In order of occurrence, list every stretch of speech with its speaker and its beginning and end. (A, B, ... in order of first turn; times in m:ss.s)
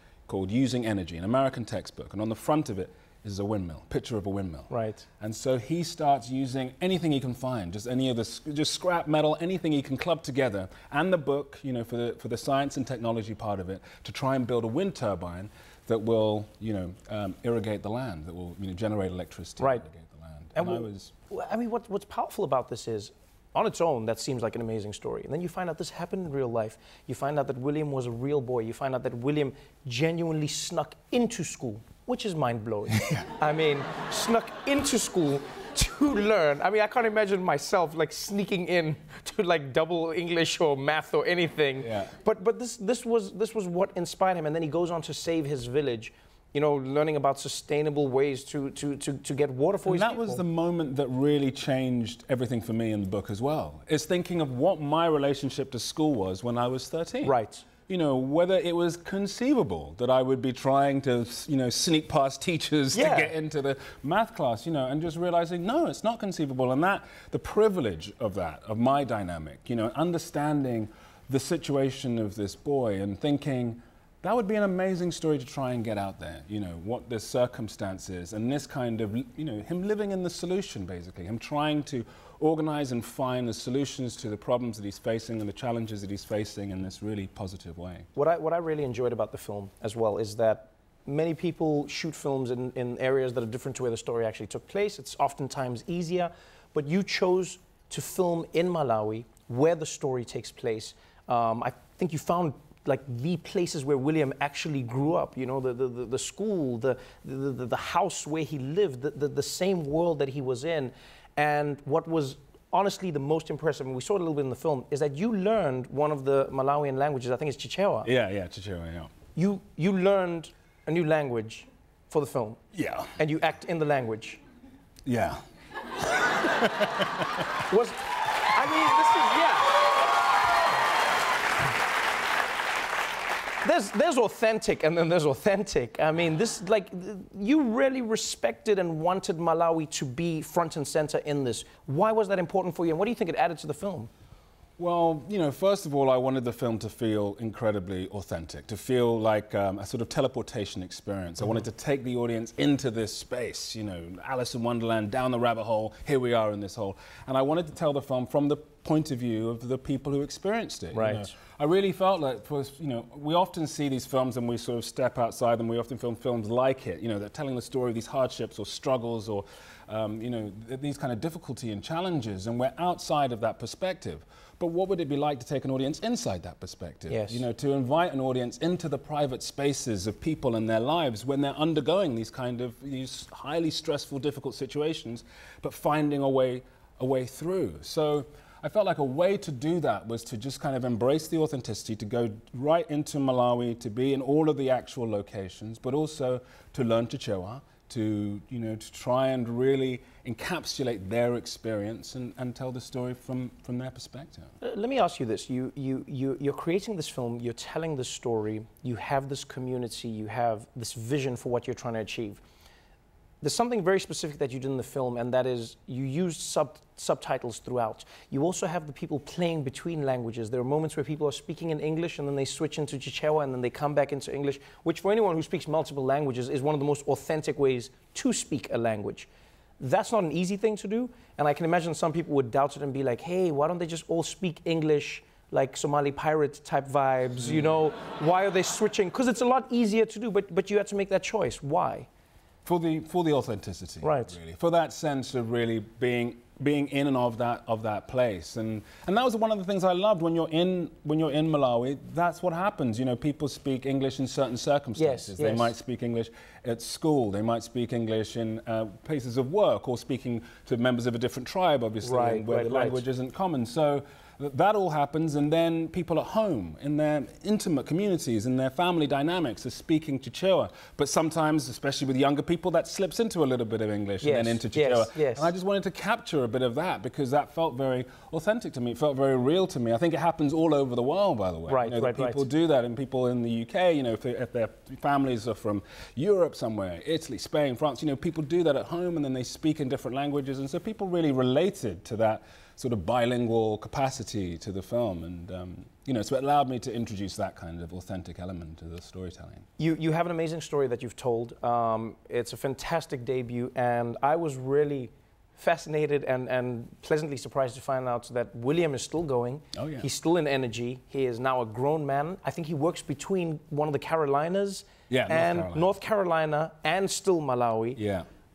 0:00.3-0:21.1 A
0:04.7-0:05.0 B
0:19.6-0:19.8 B
0:20.5-0:50.4 B
0:41.8-0:42.1 A
0:49.8-0:57.3 A
0:57.2-0:57.6 B
0:57.9-1:28.1 A
1:02.9-1:03.3 B
1:28.1-1:58.1 B
1:58.0-1:59.1 A
1:59.3-2:02.6 B
2:02.7-2:03.1 A
2:03.2-2:04.4 B
2:05.0-2:05.4 A
2:06.0-2:07.4 A
2:07.6-2:09.8 B
2:13.6-2:24.1 B
2:24.8-3:24.5 A
2:40.9-2:41.3 B
2:57.1-2:57.4 B
3:24.6-3:32.4 B
3:33.4-4:02.1 B
4:02.6-4:59.6 A
4:04.0-4:04.3 B
4:15.0-4:15.7 B
4:22.0-4:23.0 B
4:34.2-4:35.5 B
4:41.7-4:42.4 B
4:59.8-5:18.0 B
5:09.7-5:10.1 A
5:15.1-5:15.9 A
5:18.0-5:18.2 A